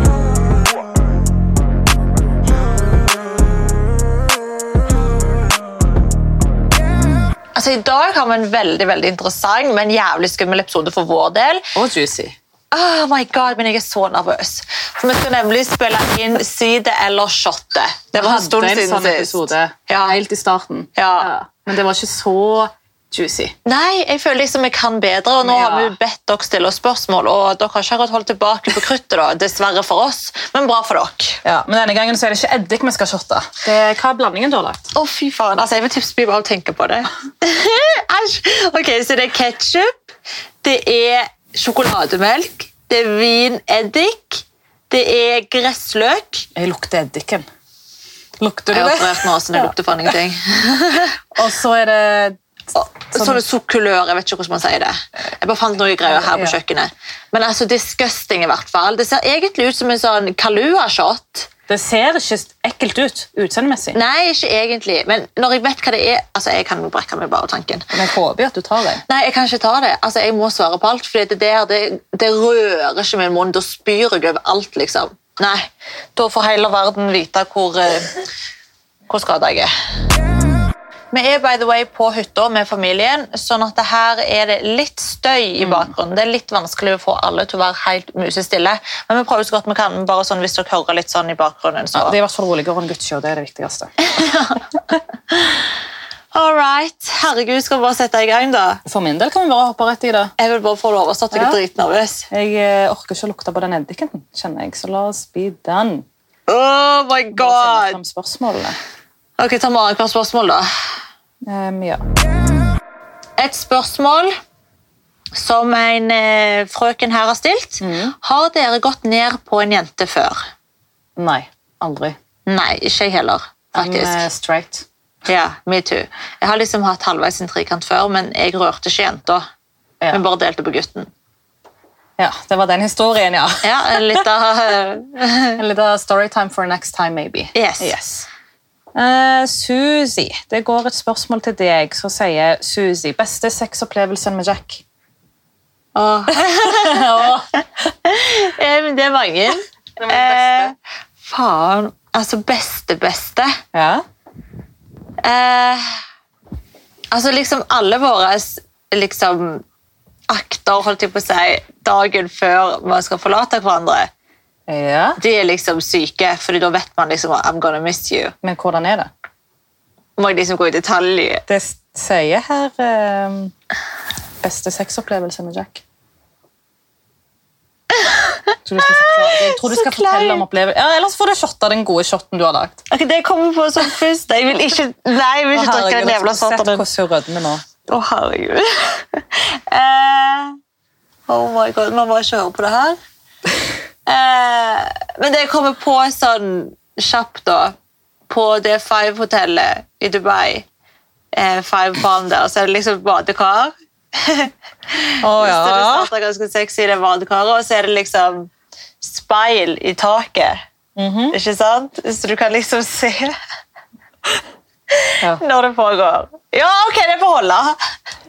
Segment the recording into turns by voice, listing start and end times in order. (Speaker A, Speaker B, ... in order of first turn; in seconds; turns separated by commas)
Speaker A: 7.5-11.6, Speaker B: 11.8-12.3, Speaker A: 12.7-20.1, Speaker B: 18.1-23.5, Speaker A: 20.9-21.3, Speaker A: 23.6-31.4, Speaker B: 25.4-25.9, Speaker B: 31.4-34.9, Speaker A: 34.9-40.0, Speaker A: 40.6-46.5, Speaker B: 46.5-47.5, Speaker B: 48.4-49.7, Speaker A: 48.7-51.2, Speaker B: 51.3-52.4, Speaker A: 52.7-61.5, Speaker B: 53.0-53.4, Speaker B: 56.0-56.6, Speaker B: 61.7-64.0, Speaker A: 63.9-67.9, Speaker B: 67.9-69.0, Speaker A: 69.1-78.2, Speaker A: 79.1-79.7, Speaker A: 81.1-92.2, Speaker B: 85.6-85.9, Speaker B: 91.9-93.9, Speaker A: 94.0-94.6, Speaker A: 95.3-95.6, Speaker A: 96.3-98.8, Speaker B: 98.8-100.3, Speaker A: 100.4-102.3, Speaker B: 101.3-101.6, Speaker B: 102.3-106.0, Speaker A: 106.5-108.0, Speaker B: 107.3-108.8, Speaker A: 109.4-110.7, Speaker B: 111.4-112.0, Speaker A: 113.4-114.3, Speaker A: 115.3-120.4, Speaker B: 117.8-118.1, Speaker B: 121.2-122.2, Speaker A: 122.5-124.2, Speaker B: 123.8-124.8, Speaker A: 125.2-129.4, Speaker A: 130.1-131.1, Speaker B: 132.2-134.2, Speaker A: 133.6-135.6, Speaker B: 135.6-138.3, Speaker A: 137.5-137.9, Speaker B: 138.9-144.8, Speaker B: 145.9-147.4, Speaker A: 146.3-153.6, Speaker B: 150.0-150.7, Speaker B: 153.7-154.0, Speaker A: 155.2-155.8, Speaker A: 157.1-159.6, Speaker A: 160.3-164.1, Speaker B: 164.7-165.2, Speaker A: 165.2-168.3, Speaker B: 168.4-169.1, Speaker A: 170.2-171.4, Speaker B: 171.5-173.5, Speaker B: 174.4-175.8, Speaker B: 178.6-182.8, Speaker A: 178.9-180.4, Speaker A: 182.9-186.8, Speaker B: 185.5-187.6, Speaker A: 187.9-190.6, Speaker A: 191.3-193.0, Speaker A: 194.1-197.8, Speaker A: 198.3-200.7, Speaker A: 201.3-208.5, Speaker B: 205.2-206.1, Speaker A: 209.0-210.6, Speaker B: 210.9-211.3, Speaker A: 211.3-213.3, Speaker A: 214.9-217.8